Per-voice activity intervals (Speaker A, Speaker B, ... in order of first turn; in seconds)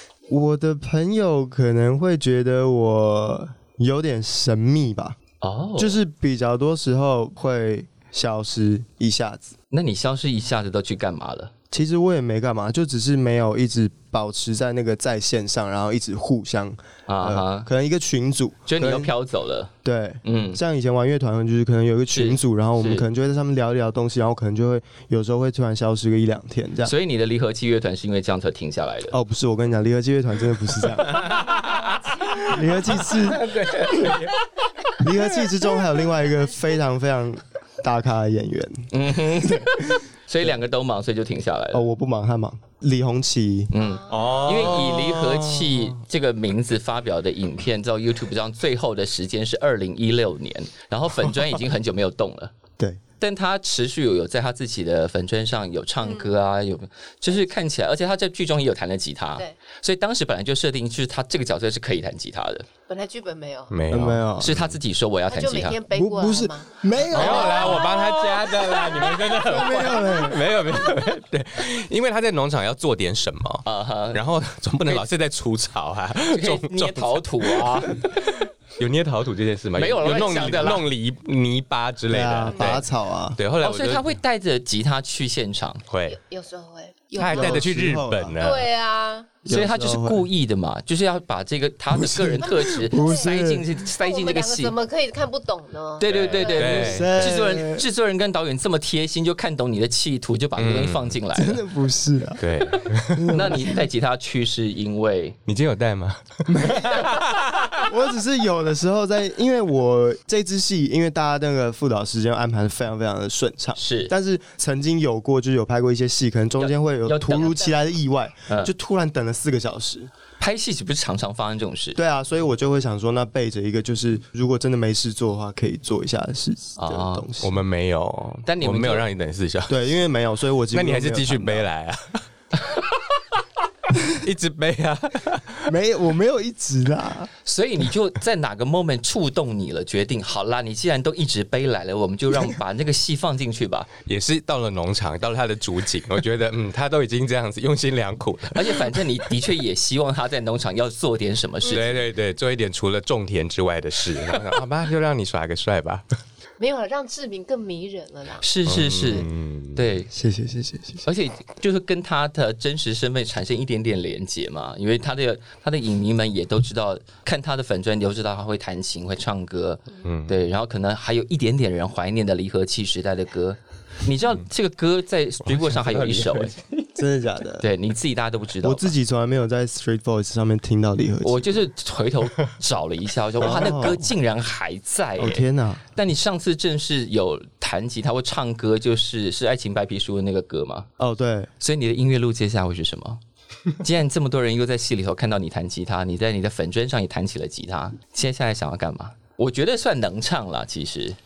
Speaker A: 0.3-5.2, 5.8-9.5, 11.7-19.1, 19.8-26.9, 29.1-31.3, 32.3-34.1, 35.0-40.0, 41.7-43.7, 63.9-64.5, 65.9-67.8, 69.4-70.5, 82.1-83.4, 87.2-88.4, 89.4-90.2, 91.9-93.6, 96.7-97.8, 101.3-103.8, 106.5-107.2, 107.8-120.1, 122.0-127.6, 129.7-131.7, 135.7-137.3, 160.1-161.0, 176.9-177.7, 178.6-181.5, 183.4-184.1, 185.2-185.8, 191.0-191.5
Speaker B: 5.4-6.0, 9.7-11.5, 17.1-17.7, 18.7-19.7, 20.2-20.6, 22.1-23.0, 26.8-29.1, 38.9-41.8, 43.7-52.5, 53.2-62.6, 64.4-65.8, 67.1-68.1, 73.6-74.2, 76.3-78.1, 79.8-80.8, 83.6-85.8, 89.5-94.7, 96.0-101.6, 103.3-105.4, 113.8-114.1, 116.6-117.6, 120.4-122.0, 126.8-127.2, 128.4-129.1, 137.4-143.9, 148.5-152.0, 158.4-160.1, 161.0-176.6, 177.6-178.9, 181.2-190.9, 191.6-193.2, 193.8-201.2
Speaker C: 31.0-35.2, 44.1-45.9, 63.7-64.7, 67.1-84.2, 85.9-86.2, 87.2-88.7, 96.0-97.5, 100.6-101.2, 102.4-103.5, 105.5-107.9, 127.4-130.0, 130.7-132.8, 134.0-135.7, 144.0-149.3, 151.7-156.0, 158.7-159.8, 170.0-170.3, 175.4-177.0
Speaker D: 43.8-44.5, 56.0-56.3, 62.9-63.7, 65.3-69.7, 86.1-87.7, 88.4-89.3, 92.6-93.3, 93.8-97.0, 117.3-117.8, 156.6-159.2